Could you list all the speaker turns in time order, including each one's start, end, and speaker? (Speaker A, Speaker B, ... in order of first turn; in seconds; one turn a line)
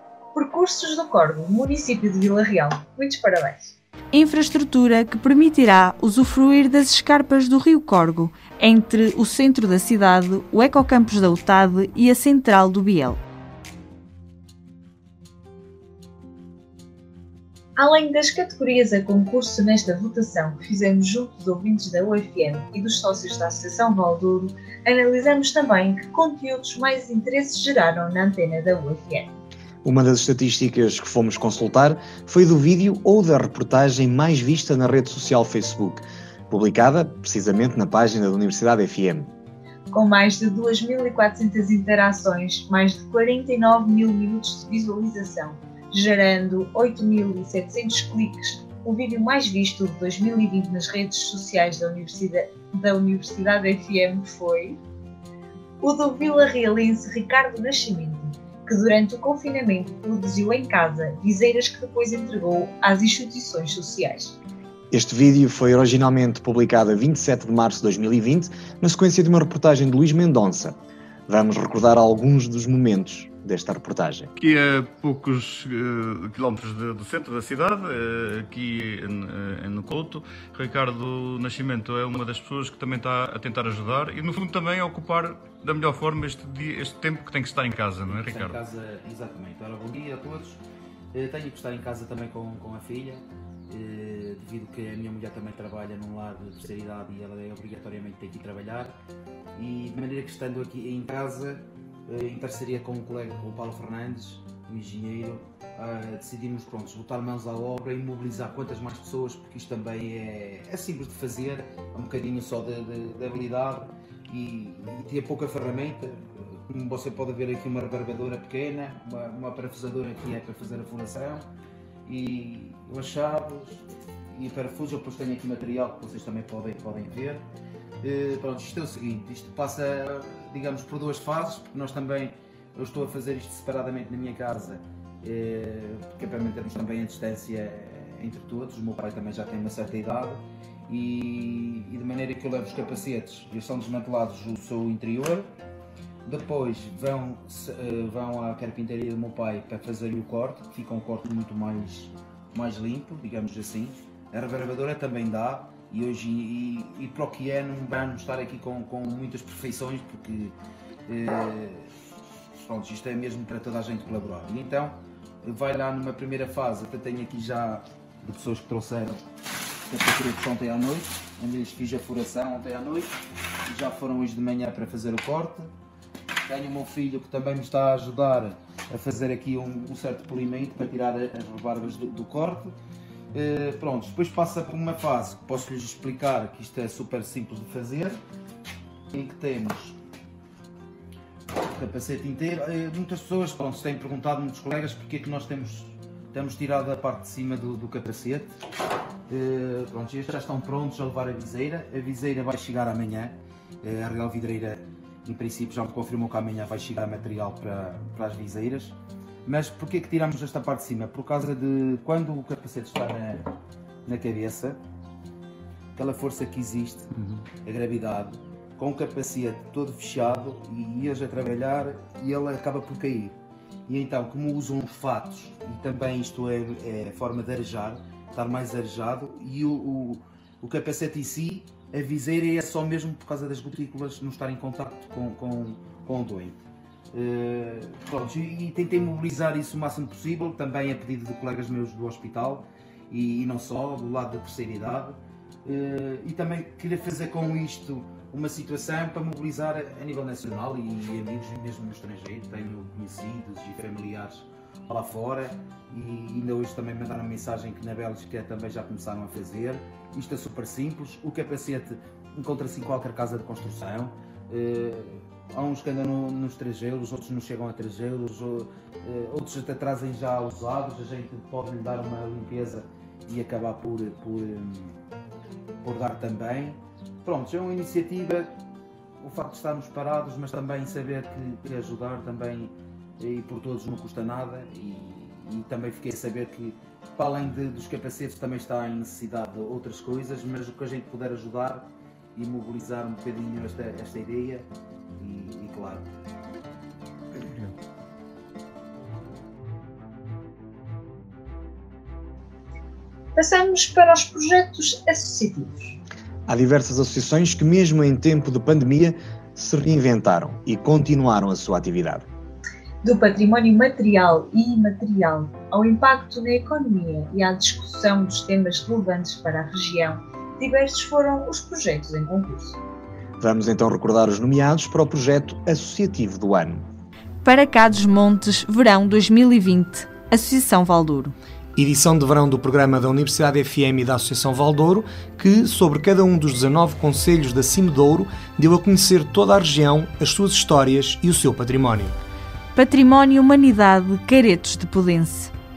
Speaker A: 0.3-3.7
Speaker B: 4.1-13.2
Speaker A: 17.8-29.3
Speaker C: 29.8-39.3
Speaker A: 39.9-54.8
Speaker A: 55.8-64.3
Speaker C: 64.9-70.8
Speaker C: 71.3-74.3
Speaker D: 74.4-88.6
Speaker E: 88.0-90.6
Speaker E: 91.1-99.0
Speaker E: 99.5-121.5
Speaker E: 122.0-127.4
Speaker E: 128.0-145.5
Speaker E: 146.2-160.5
Speaker E: 161.1-161.9
Speaker E: 162.6-169.2
Speaker E: 169.9-175.7
Speaker E: 176.4-182.7
Speaker E: 183.3-188.2
Speaker E: 189.1-190.0
Speaker E: 191.7-198.5
Speaker E: 199.3-213.4
Speaker E: 214.0-214.8
Speaker E: 215.9-217.1
Speaker E: 217.6-223.3
Speaker E: 223.9-236.6
Speaker E: 237.1-275.0
Speaker E: 275.8-278.6
Speaker E: 279.2-296.1
Speaker A: 303.3-306.0
Speaker C: 306.5-312.3
Speaker A: 313.0-322.8
Speaker C: 323.4-326.8
Speaker B: 327.4-331.3
Speaker F: 331.8-342.1
Speaker B: 342.7-345.5